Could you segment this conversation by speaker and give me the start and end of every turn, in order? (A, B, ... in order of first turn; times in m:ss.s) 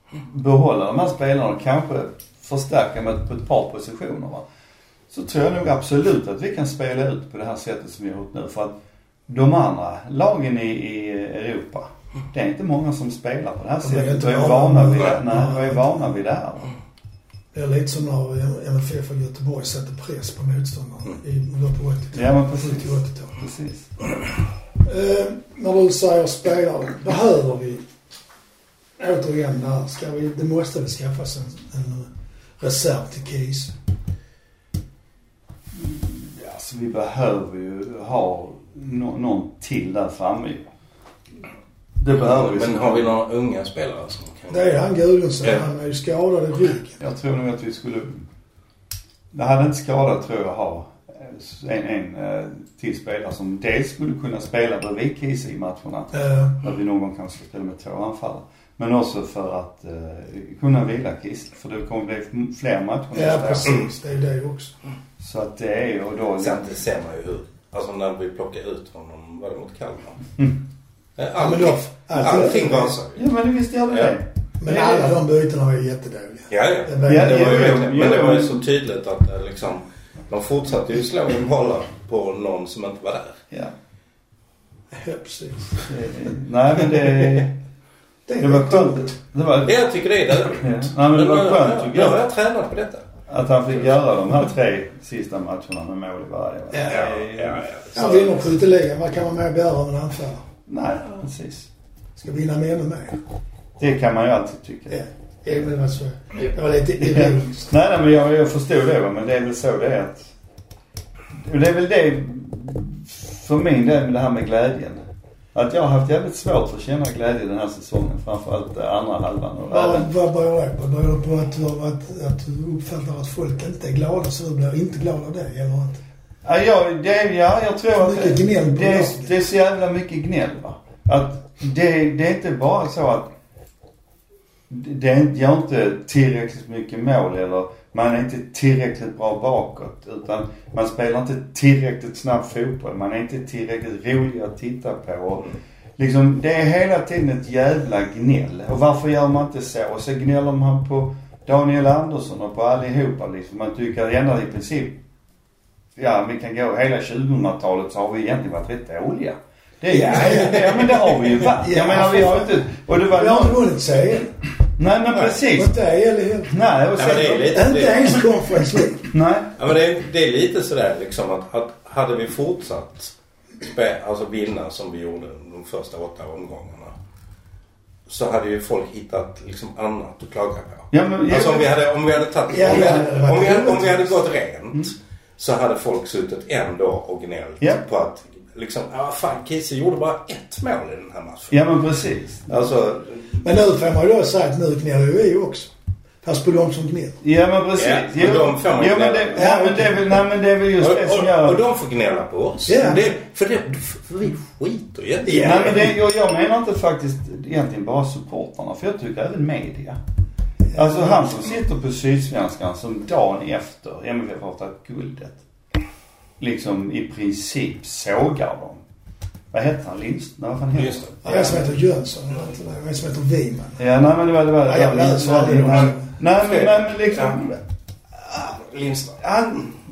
0:00.2-0:04.4 A
0:05.1-0:16.7 A
0:13.8-0:16.1 B
0:17.5-0:23.4 B
0:22.1-0:23.9 A
0:24.8-0:27.8 B
0:29.0-0:33.7 B
0:35.7-0:40.6 A
0:42.0-0:43.1 A
0:42.2-0:44.8 C
0:44.5-0:47.0 B
0:47.0-0:48.2 A
0:49.3-1:03.8 A
0:56.1-0:56.6 B
1:03.1-1:04.7 B
1:05.2-1:06.7 A
1:06.4-1:10.2 C
1:11.2-1:13.2 C
1:11.4-1:13.0 B
1:13.2-1:15.1 A
1:14.6-1:17.8 B
1:16.5-1:23.4 C
1:17.0-1:18.6 A
1:24.9-1:25.9 B
1:25.9-1:27.6 A
1:28.3-1:29.1 B
1:28.4-1:29.8 A
1:29.6-1:33.1 C
1:30.4-1:32.2 A
1:33.3-1:37.6 A
1:36.7-1:37.0 B
1:36.8-1:38.4 C
1:37.9-1:40.4 B
1:40.7-1:41.7 A
1:42.2-1:43.2 B
1:43.8-1:45.0 A
1:44.9-1:47.7 B
1:47.0-1:50.3 A
1:51.3-1:55.0 A
1:55.5-2:00.1 A
1:59.7-2:06.0 B
2:06.4-2:13.3 A
2:07.9-2:09.3 B
2:14.7-2:35.0 A
2:36.0-2:43.6 A
2:39.9-2:41.1 C
2:39.9-2:40.8 B
2:41.5-2:42.6 B
2:43.1-2:44.3 B
2:44.8-2:45.7 A
2:45.5-2:46.5 B
2:46.5-2:47.6 A
2:47.0-2:48.2 C
2:47.3-2:49.1 B
2:49.1-2:49.5 A
2:49.6-2:56.9 C
2:58.1-3:11.6 C
3:00.9-3:01.7 A
3:02.5-3:04.1 B
3:11.5-3:12.5 A
3:12.5-3:13.4 C
3:13.4-3:15.7 B
3:16.2-3:17.2 B
3:17.2-3:21.6 A
3:17.8-3:19.4 C
3:19.3-3:20.1 B
3:20.8-3:25.9 C
3:22.6-3:23.1 B
3:25.2-3:25.9 B
3:25.3-3:30.0 A
3:30.7-3:31.5 B
3:30.7-3:35.4 A
3:36.4-3:38.8 A
3:39.5-3:41.6 A
3:40.7-3:41.5 C
3:41.2-3:43.8 B
3:43.8-3:47.6 A
3:44.6-3:46.1 B
3:45.7-3:47.4 C
3:48.4-3:49.2 C
3:49.2-3:49.7 A